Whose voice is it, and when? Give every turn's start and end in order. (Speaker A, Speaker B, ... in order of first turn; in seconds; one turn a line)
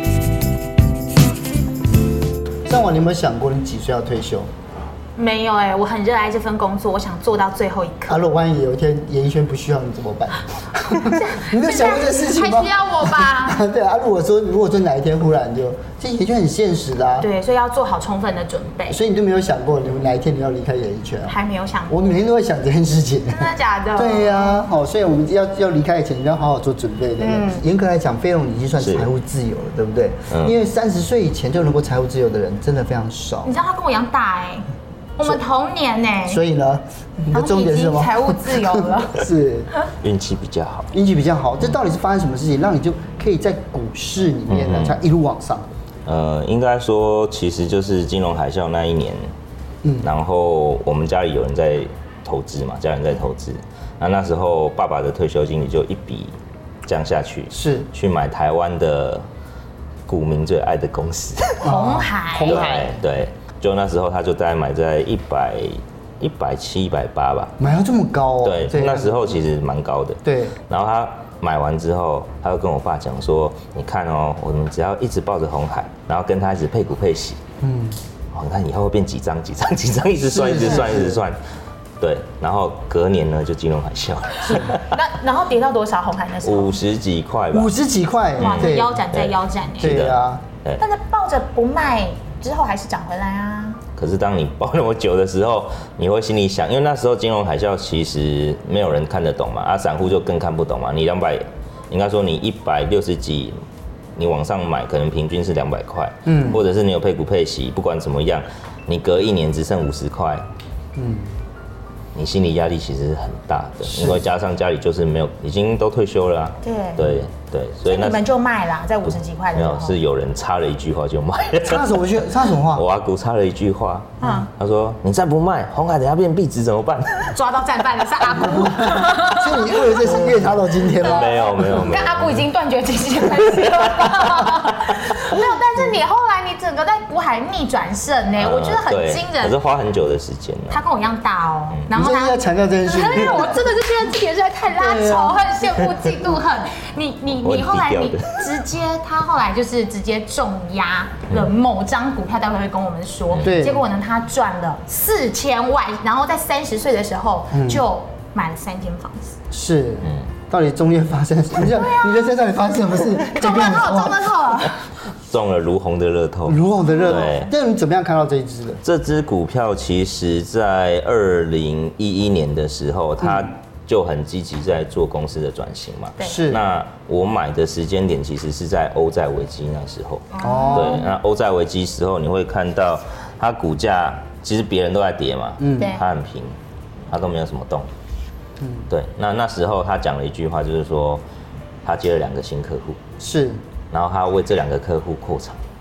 Speaker A: 2.6-4.5
Speaker B: 5.2-8.2
Speaker A: 8.1-17.3
Speaker B: 10.9-13.6
Speaker B: 17.2-19.0
Speaker A: 18.9-21.4
Speaker B: 21.2-22.0
Speaker A: 21.9-33.5
Speaker B: 23.3-24.5
Speaker B: 27.2-27.6
Speaker C: 28.8-29.1
Speaker C: 30.3-30.6
Speaker B: 33.4-36.4
Speaker A: 36.2-39.7
Speaker B: 37.3-39.8
Speaker C: 40.0-40.9
Speaker A: 40.9-45.7
Speaker C: 44.5-45.0
Speaker C: 46.0-49.3
Speaker C: 50.0-59.3
Speaker A: 57.5-57.9
Speaker C: 60.1-61.7
Speaker B: 61.6-62.9
Speaker A: 61.6-62.9
Speaker C: 62.5-67.5
Speaker A: 67.6-69.2
Speaker C: 68.4-77.4
Speaker A: 70.2-70.5
Speaker A: 77.6-78.0
Speaker C: 78.3-81.4
Speaker A: 80.2-81.2
Speaker C: 82.0-85.0
Speaker B: 84.6-86.8
Speaker C: 86.4-87.7
Speaker A: 87.5-89.0
Speaker B: 88.4-90.1
Speaker C: 88.4-90.8
Speaker A: 89.8-90.4
Speaker B: 90.8-93.8
Speaker C: 94.0-103.6
Speaker C: 104.2-110.5
Speaker A: 106.2-106.6
Speaker A: 111.0-111.3
Speaker C: 112.1-118.2
Speaker A: 113.9-114.2
Speaker B: 116.6-117.0
Speaker B: 117.8-120.0
Speaker C: 119.1-127.4
Speaker A: 121.6-122.8
Speaker B: 124.2-124.5
Speaker A: 124.2-124.5
Speaker B: 127.3-130.0
Speaker A: 128.4-131.7
Speaker B: 130.9-139.6
Speaker C: 131.0-132.4
Speaker C: 133.5-135.3
Speaker C: 138.4-140.8
Speaker B: 140.7-159.4
Speaker A: 141.9-143.7
Speaker A: 144.8-145.4
Speaker C: 147.3-148.6
Speaker C: 153.3-153.5
Speaker A: 153.4-153.8
Speaker A: 157.5-157.8
Speaker A: 159.5-164.3
Speaker C: 160.0-160.3
Speaker B: 161.7-162.3
Speaker B: 163.2-164.9
Speaker C: 165.3-167.5
Speaker A: 166.4-168.8
Speaker B: 166.8-167.4
Speaker C: 168.8-186.6
Speaker B: 176.2-176.4
Speaker A: 176.2-176.6
Speaker B: 180.3-181.1
Speaker A: 180.4-181.0
Speaker A: 185.6-186.0
Speaker B: 185.8-186.0
Speaker C: 187.1-187.9
Speaker A: 188.6-188.9
Speaker C: 188.9-191.2
Speaker C: 191.8-193.0
Speaker A: 193.2-193.6
Speaker C: 193.9-195.6